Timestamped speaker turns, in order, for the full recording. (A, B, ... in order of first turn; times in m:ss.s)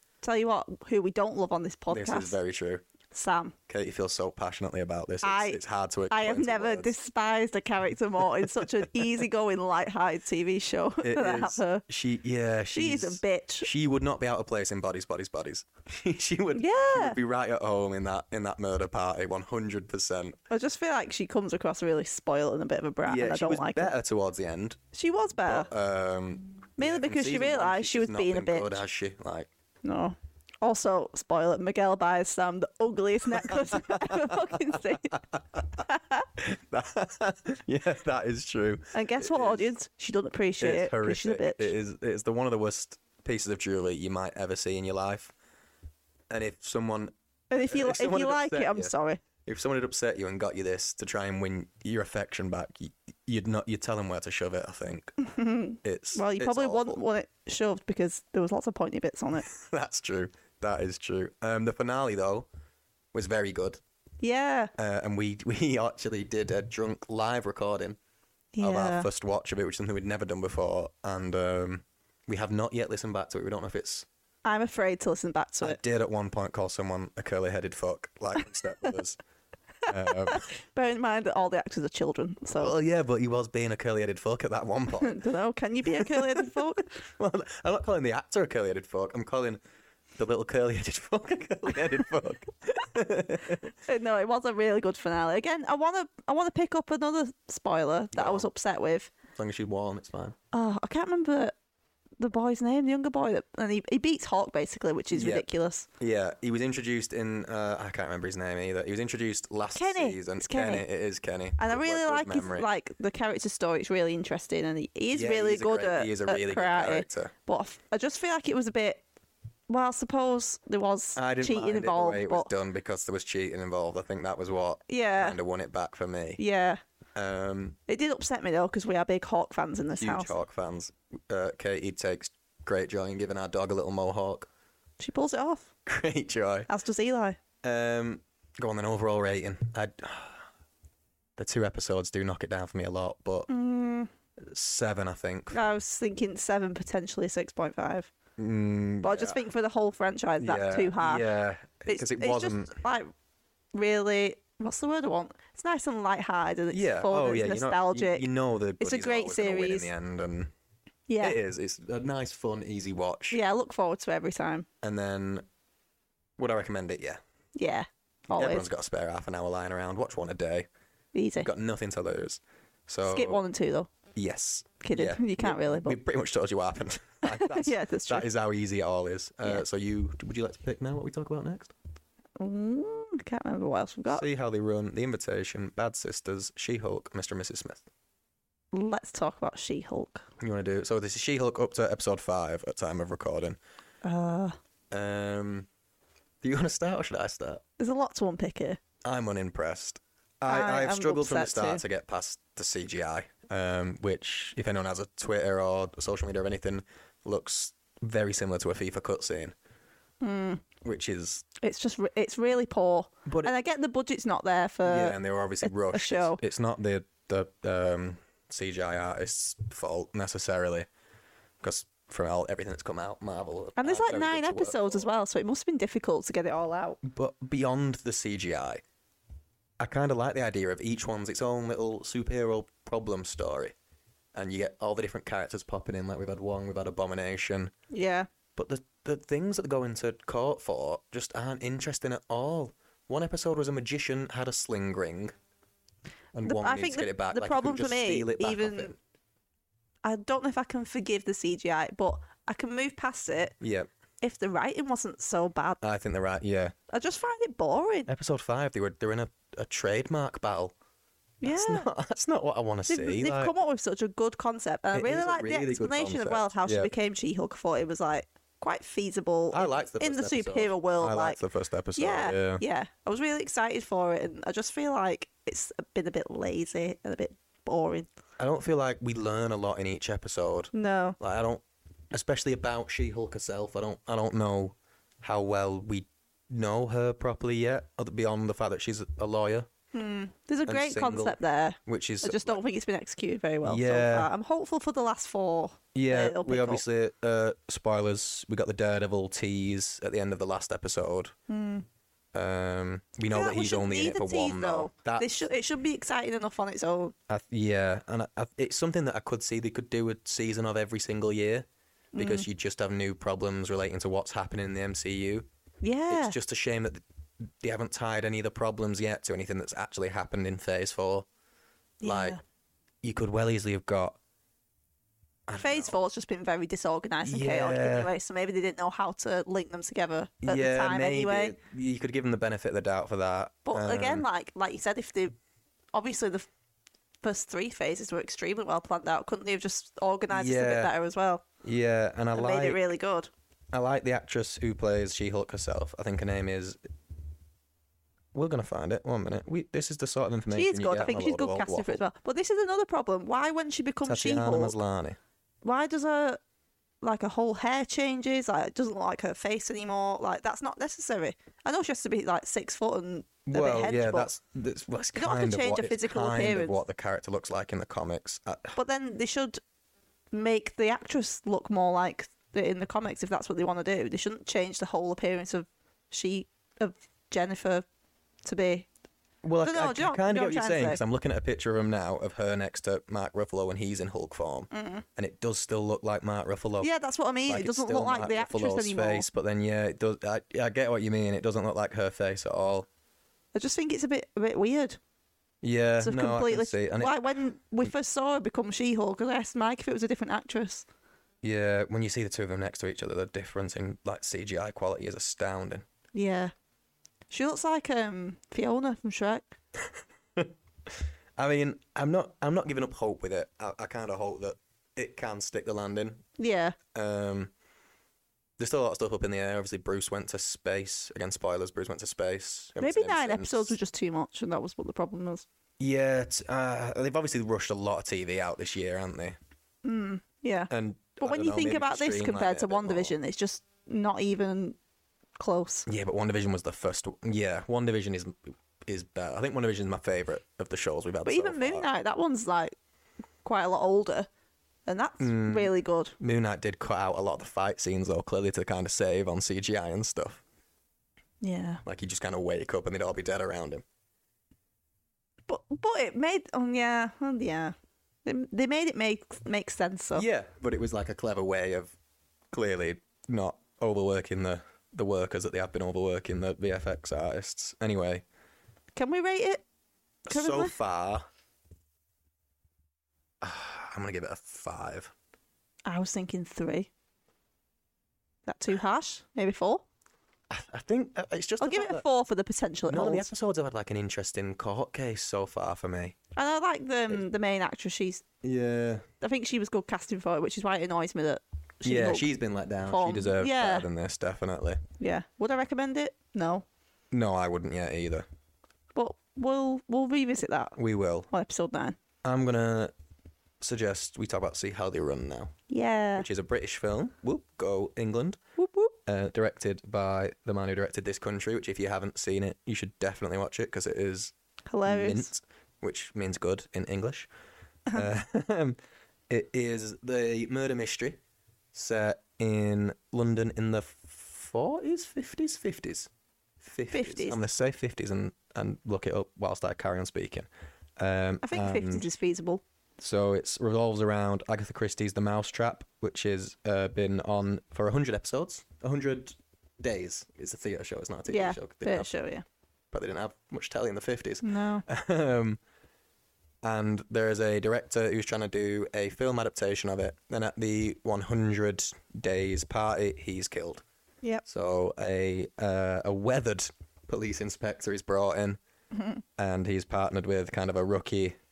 0:00.2-0:02.4 A
0:01.9-0:02.8 B
0:03.1-0:03.6 A
0:03.7-0:06.9 B
0:05.2-0:05.6 A
0:06.1-0:11.8 A
0:11.0-0:20.4 B
0:12.7-0:13.7 A
0:16.5-0:17.2 A
0:20.5-0:23.9 A
0:23.0-0:24.8 B
0:24.9-0:25.7 A
0:25.4-0:29.5 B
0:26.8-0:28.8 A
0:29.8-0:35.2 A
0:33.3-0:35.8 B
0:35.9-0:36.3 A
0:36.4-0:39.7 B
0:38.9-0:41.7 A
0:40.6-0:45.3 B
0:46.3-0:55.2 B
0:47.5-0:49.2 A
0:55.2-0:59.5 A
0:55.8-0:57.0 B
0:59.4-1:02.5 B
1:03.1-1:03.8 B
1:04.2-1:04.7 A
1:04.8-1:08.0 B
1:08.6-1:09.1 A
1:08.6-1:14.1 B
1:14.4-1:15.8 A
1:15.6-1:19.2 B
1:19.9-1:20.5 B
1:19.9-1:22.7 A
1:22.6-1:25.2 B
1:25.0-1:26.9 A
1:25.9-1:29.6 B
1:30.2-1:33.7 B
1:33.8-1:39.1 A
1:38.1-1:38.5 B
1:39.4-1:40.4 B
1:40.5-1:41.6 A
1:42.2-1:45.9 A
1:45.1-1:45.4 B
1:46.0-1:52.7 B
1:49.8-1:50.9 A
1:51.6-1:59.0 A
1:55.1-1:57.3 B
1:59.7-2:02.5 A
2:01.2-2:06.4 B
2:04.9-2:05.4 A
2:06.4-2:06.8 A
2:07.2-2:07.8 B
2:07.9-2:10.3 A
2:10.0-2:14.5 B
2:15.0-2:15.7 A
2:15.9-2:16.7 B
2:16.7-2:17.4 A
2:17.6-2:20.5 B
2:21.4-2:23.5 B
2:23.5-2:24.1 A
2:24.4-2:25.6 B
2:25.5-2:28.1 A
2:28.4-2:29.4 B
2:29.0-2:31.3 A
2:30.4-2:32.7 B
2:31.9-2:33.1 A
2:33.7-2:38.3 A
2:36.7-2:40.5 B
2:38.8-2:39.9 A
2:41.1-2:41.4 A
2:41.2-2:43.4 B
2:43.3-2:44.7 A
2:44.8-2:45.4 B
2:46.4-2:47.2 B
2:47.6-2:48.7 A
2:48.3-2:50.7 B
2:51.1-2:51.5 A
2:51.4-2:53.4 B
2:53.1-2:53.9 A
2:54.2-3:01.7 B
2:54.8-2:56.0 A
2:57.2-2:58.3 A
3:02.4-3:04.2 A
3:04.1-3:07.8 B
3:08.7-3:10.2 A
3:10.4-3:13.6 B
3:14.0-3:14.6 A
3:14.9-3:15.7 B
3:16.4-3:17.6 B
3:17.8-3:18.8 A
3:19.0-3:29.6 B
3:20.5-3:21.8 A
3:30.2-3:30.7 A
3:30.8-3:31.5 B
3:31.6-3:36.4 A
3:33.3-3:33.5 B
3:34.8-3:40.9 B
3:41.6-3:45.1 B
3:43.8-3:47.0 A
3:47.0-3:48.8 B
3:49.8-3:53.7 B
3:54.4-3:57.7 B
3:57.9-3:58.3 A
3:58.6-4:05.3 B
4:06.3-4:09.0 B
4:06.4-4:08.9 A
4:10.0-4:13.6 A
4:13.6-4:13.9 B
4:14.2-4:15.8 A
4:15.8-4:16.8 B
4:16.9-4:18.1 A
4:18.1-4:20.7 B
4:21.4-4:21.9 A
4:21.4-4:23.5 B
4:22.9-4:31.4 A
4:24.9-4:26.9 B
4:29.5-4:32.6 B
4:32.0-4:38.1 A
4:38.4-4:49.7 B
4:40.7-4:41.2 A
4:49.9-4:56.8 A
4:50.7-4:52.6 B
4:53.6-4:54.3 B
4:55.9-5:01.4 B
5:01.5-5:01.9 A
5:02.3-5:05.5 B
5:03.3-5:07.1 A
5:07.3-5:15.5 B
5:12.1-5:12.5 A
5:15.8-5:16.4 A
5:16.1-5:21.3 B
5:22.0-5:22.4 A
5:22.0-5:22.4 B
5:23.0-5:24.2 B
5:25.5-5:26.0 B
5:25.6-5:31.6 A
5:27.2-5:28.1 B
5:30.4-5:34.3 B
5:33.7-5:35.4 A
5:35.9-5:36.5 A
5:37.2-5:41.4 A
5:40.3-5:40.9 B
5:41.6-5:42.8 B
5:42.4-5:43.3 A
5:43.7-5:46.8 B
5:48.3-5:52.0 B
5:50.5-5:54.8 A
5:54.0-5:55.2 B
5:55.6-5:56.4 A
5:57.0-6:04.3 A
6:03.5-6:08.8 B
6:05.2-6:06.8 A
6:08.8-6:09.6 A
6:10.3-6:17.9 A
6:18.4-6:18.9 A
6:19.4-6:26.9 B
6:19.6-6:21.0 A
6:24.7-6:25.0 A
6:26.8-6:29.3 A
6:27.5-6:32.9 B
6:33.5-6:35.0 A
6:35.6-6:37.2 B
6:36.0-6:40.9 A
6:41.4-6:45.8 B
6:46.1-6:46.5 A
6:47.3-6:49.6 A
6:50.4-6:56.2 B
6:56.4-6:56.8 A
6:56.9-6:57.5 B
6:58.6-7:03.8 B
7:02.8-7:05.4 A
7:05.8-7:09.4 B
7:09.8-7:14.8 A
7:10.7-7:13.2 B
7:15.4-7:15.9 A
7:15.9-7:21.9 B
7:21.2-7:22.8 A
7:23.4-7:24.3 A
7:24.9-7:26.2 A
7:25.2-7:30.4 B
7:31.4-7:31.8 A
7:31.8-7:33.8 B
7:35.5-7:40.3 A
7:40.2-7:42.0 B
7:42.5-7:48.2 B
7:49.0-7:49.6 A
7:50.3-7:51.3 B
7:50.3-7:50.8 A
7:53.4-7:55.1 B
7:55.9-7:56.9 A
7:58.5-7:59.8 A
8:00.5-8:02.0 B
8:01.6-8:03.3 A
8:02.9-8:06.2 B
8:06.4-8:08.2 A
8:08.4-8:09.1 B
8:09.2-8:12.3 A
8:11.8-8:14.8 B
8:12.8-8:13.9 A
8:15.0-8:16.6 A
8:17.1-8:18.3 B
8:19.0-8:20.8 A
8:20.8-8:21.3 B
8:21.3-8:22.0 A
8:22.2-8:22.9 B
8:23.6-8:25.6 B
8:25.7-8:26.3 A
8:26.2-8:28.4 B
8:28.6-8:29.0 A
8:29.0-8:34.3 B
8:34.7-8:35.3 A
8:34.8-8:37.3 B
8:37.9-8:38.8 B
8:39.3-8:41.2 B
8:41.7-8:46.1 B
8:46.6-8:52.1 B
8:46.9-8:47.4 A
8:51.4-8:52.6 A
8:53.0-9:02.1 B
9:01.3-9:02.4 A
9:02.9-9:05.6 B
9:04.4-9:04.8 A
9:06.6-9:13.8 B
9:14.4-9:18.6 B
9:18.9-9:19.2 A
9:19.4-9:21.4 B